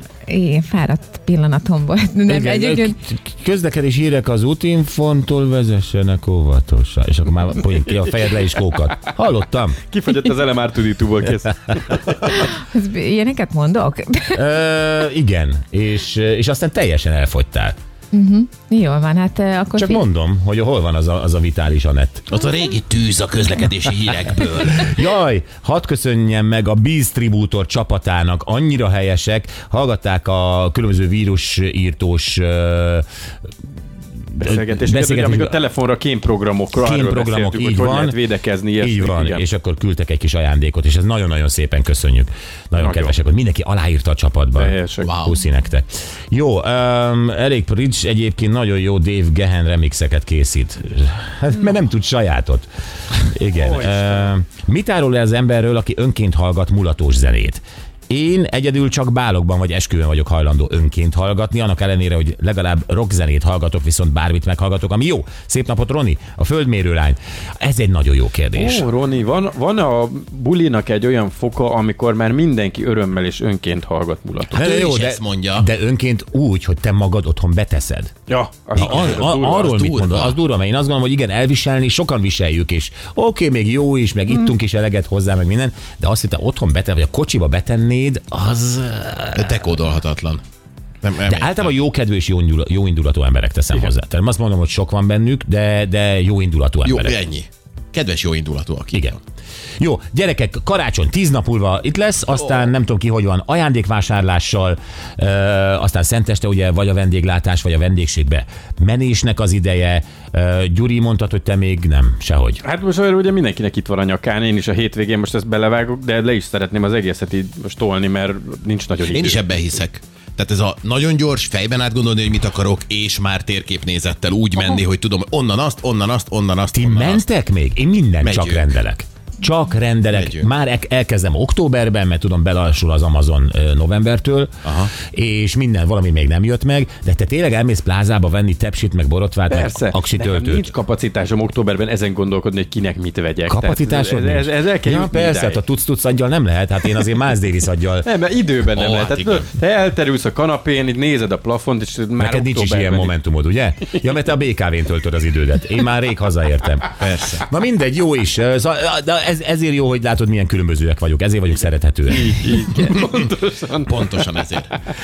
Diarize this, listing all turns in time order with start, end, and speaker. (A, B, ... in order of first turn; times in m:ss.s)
0:00.3-0:03.0 A
0:02.3-0:09.8 B
0:09.9-0:12.3 C
0:12.3-0:14.4 A
0:14.3-0:17.8 B
0:18.1-0:20.1 A
0:19.8-0:22.3 B
0:22.3-0:24.9 D
0:24.6-0:33.1 B
0:34.3-0:35.6 B
0:34.4-0:39.4 C
0:36.8-0:38.2 B
0:38.8-1:08.9 B
0:42.8-0:43.2 C
0:44.6-0:45.1 C
0:45.0-0:45.4 D
0:53.6-0:54.3 C
1:08.5-1:14.6 C
1:14.5-1:15.7 D
1:14.5-1:18.1 B
1:18.3-1:19.7 C
1:18.8-1:20.4 D
1:18.8-1:29.6 B
1:29.4-1:30.4 D
1:31.0-1:31.7 D
1:31.3-1:37.2 B
1:36.8-1:39.2 D
1:39.8-1:52.6 B
1:52.6-1:59.4 C
1:59.0-2:07.2 D
2:06.7-2:20.7 B
2:08.2-2:08.7 D
2:10.1-2:10.5 D
2:14.6-2:14.9 D
2:19.5-2:25.6 C
2:23.5-2:28.1 B
2:28.0-2:33.1 C
2:28.7-2:29.5 D
2:32.2-2:42.3 B
2:37.0-2:37.4 D
2:42.1-2:44.2 C
2:43.9-2:44.7 D